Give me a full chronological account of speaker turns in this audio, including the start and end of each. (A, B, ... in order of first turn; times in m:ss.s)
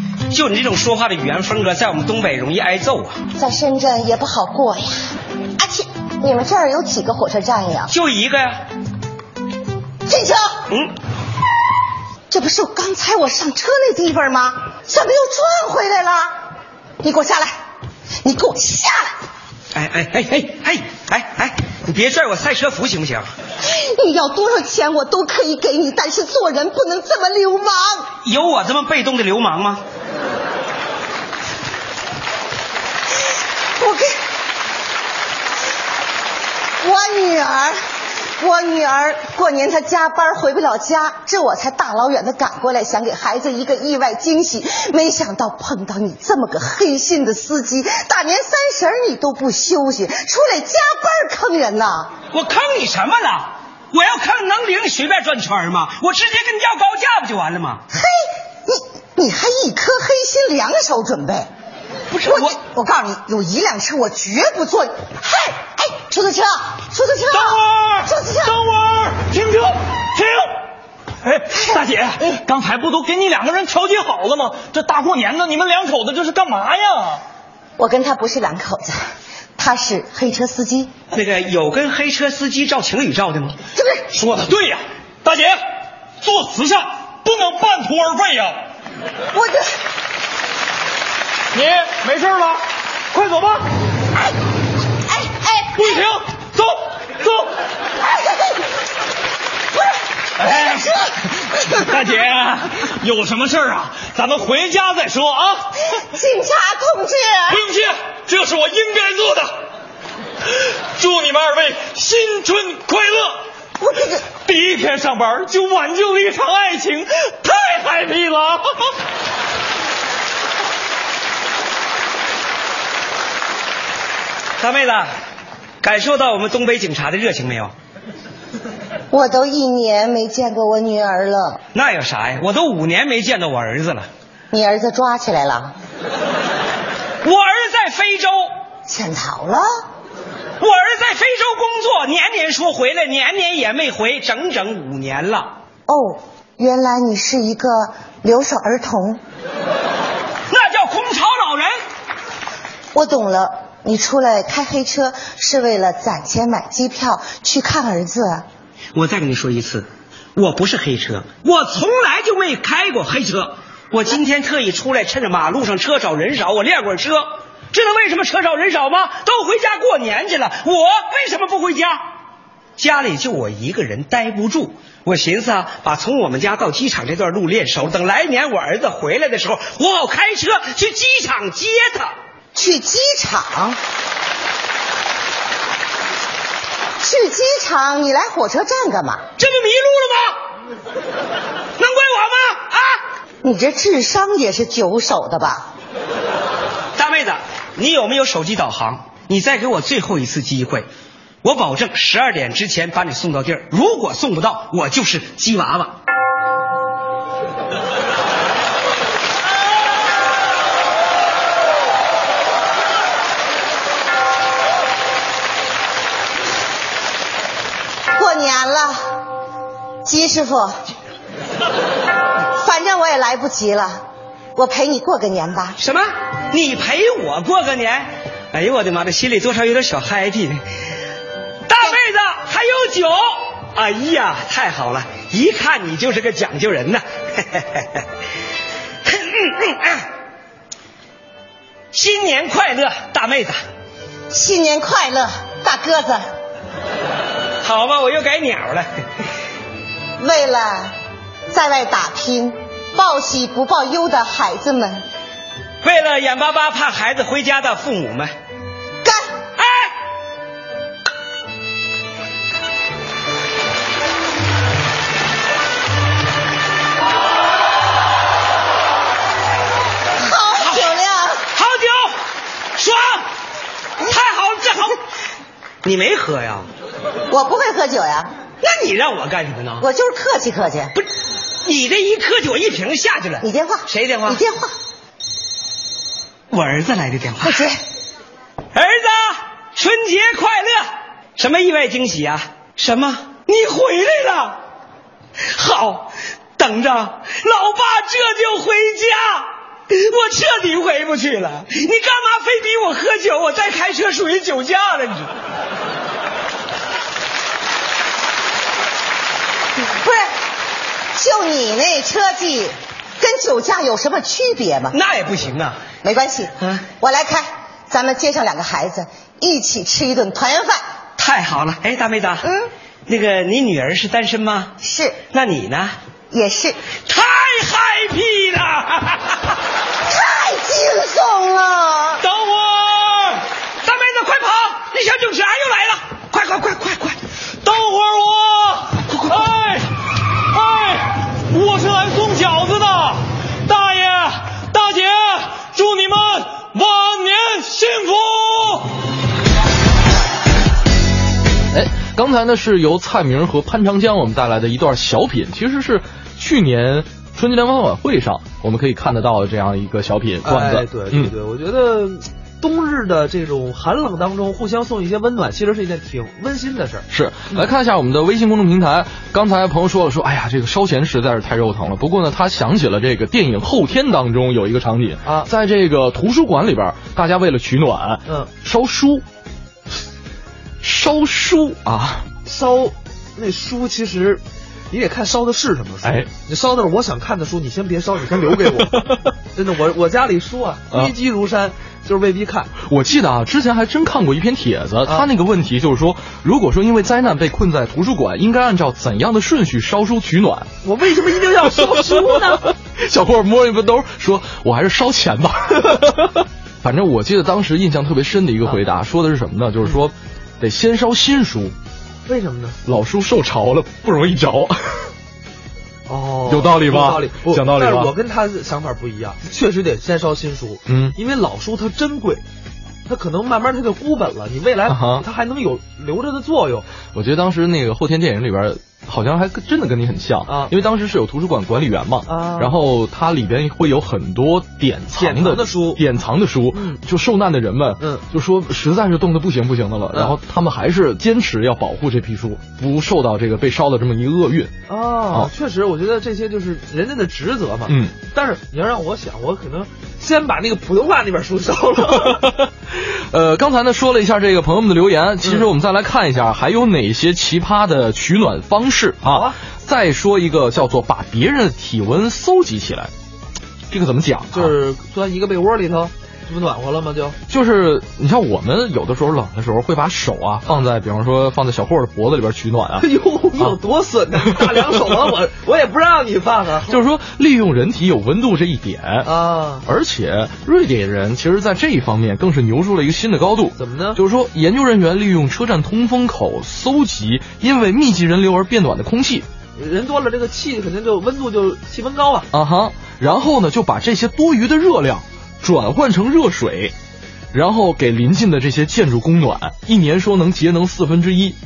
0:00.3-0:03.2 A
0:03.3-0:05.0 B
0:05.6-0:07.9 B
0:07.9-0:08.6 A
0:10.1-0:10.6 B
0:10.7-0:10.9 A
0:12.3-0:16.3 B
0:17.0-0:17.5 B
0:18.2-0:19.1 B
0:19.7-0:23.3 A
0:23.6-0:28.1 B
0:28.2-0:29.8 A
0:33.8-0:34.2 B
0:36.8-0:37.8 B
0:38.4-0:52.1 B
0:52.3-0:57.8 A
0:57.9-1:01.5 B
1:02.1-1:02.6 A
1:02.3-1:08.6 B
1:07.3-1:10.5 C
1:11.2-1:17.2 C
1:11.5-1:12.4 B
1:17.8-1:19.0 B
1:19.6-1:20.9 B
1:21.1-1:23.6 A
1:23.8-1:24.1 B
1:24.1-1:25.6 C
1:26.2-1:28.6 C
1:29.3-1:29.7 B
1:31.5-1:33.6 C
1:35.1-1:35.7 B
1:35.7-1:37.5 C
1:38.0-1:38.6 B
1:40.4-1:41.0 B
1:40.4-1:45.7 C
1:45.9-1:47.6 B
1:47.5-1:49.5 C
1:51.0-1:53.4 C
1:53.8-1:54.2 B
1:54.4-1:58.9 C
2:04.6-2:05.1 A
2:05.8-2:07.7 A
2:09.1-2:11.6 B
2:11.7-2:14.1 A
2:14.5-2:15.7 B
2:17.2-2:18.5 A
2:18.9-2:19.7 B
2:20.6-2:25.5 A
2:25.9-2:29.2 B
2:30.5-2:31.7 A
2:32.9-2:38.4 B
2:38.9-2:52.0 A
2:52.8-3:02.1 A
3:02.5-3:03.8 B
3:07.0-3:09.2 B
3:09.4-3:10.4 A
3:11.8-3:13.0 A
3:13.4-3:15.7 B
3:17.0-3:20.9 A
3:21.4-3:26.0 A
3:38.2-3:39.2 B
3:40.0-3:40.7 B
3:42.5-3:44.0 B
3:44.5-3:45.8 B
3:45.8-3:50.6 A
3:51.7-3:58.0 A
3:59.0-4:00.1 A
4:01.9-4:03.6 A
4:04.3-4:06.2 B
4:07.6-4:08.9 A
4:10.2-4:10.9 B
4:11.5-4:15.0 B
4:15.8-4:18.3 A
4:19.6-4:19.9 A
4:30.2-4:31.4 B
4:30.6-4:30.9 A
4:31.5-4:32.2 A
4:32.8-4:33.3 A
4:34.0-4:35.0 A
4:35.8-4:36.7 A
4:37.3-4:38.3 B
4:38.6-4:39.9 A
4:39.8-4:40.9 B
4:41.6-4:44.4 A
4:43.4-4:44.7 B
4:46.5-4:47.7 A
4:47.4-4:47.8 B
4:48.7-4:54.6 A
4:55.4-5:05.3 A
5:09.9-5:10.3 B
5:11.1-5:15.0 B
5:14.9-5:15.8 A
5:16.0-5:20.8 B
5:21.2-5:22.5 A
5:22.4-5:22.7 B
5:23.1-5:24.7 A
5:24.8-5:25.2 B
5:25.3-5:26.0 A
5:26.3-5:26.8 B
5:27.1-5:29.5 A
5:30.1-5:32.2 B
5:32.2-5:33.3 A
5:33.8-5:37.2 A
5:37.6-5:39.9 C
5:39.0-5:39.5 A
5:40.5-5:48.9 C
5:51.7-6:01.3 D
6:00.4-6:07.7 E
6:07.1-6:19.2 D
6:15.2-6:15.5 E
6:20.8-6:22.3 D
6:22.4-6:32.7 E
6:32.8-6:40.7 D
6:35.0-6:35.3 E
6:40.8-6:42.7 E
6:42.7-6:51.7 D
6:52.2-6:52.8 E
6:52.8-6:55.1 D
6:56.1-7:02.4 E
6:56.5-6:58.1 D
7:00.9-7:01.2 D
7:03.1-7:06.8 E
7:04.9-7:05.2 D
7:07.1-7:24.7 D
7:10.4-7:10.7 E
7:12.3-7:12.7 E
7:15.2-7:16.0 E
7:16.7-7:17.0 E
7:24.9-7:32.4 E
7:27.9-7:28.1 D
7:32.2-7:43.1 D
7:39.2-7:39.6 E
7:43.9-7:44.7 D
7:44.5-7:47.4 E
7:47.5-7:53.1 D
7:53.0-7:57.0 E
7:56.9-7:59.3 D
7:59.2-7:59.8 E
7:59.8-8:09.4 D
8:03.7-8:04.2 E
8:09.8-8:12.5 E
8:12.5-8:16.9 D
8:17.5-8:21.6 D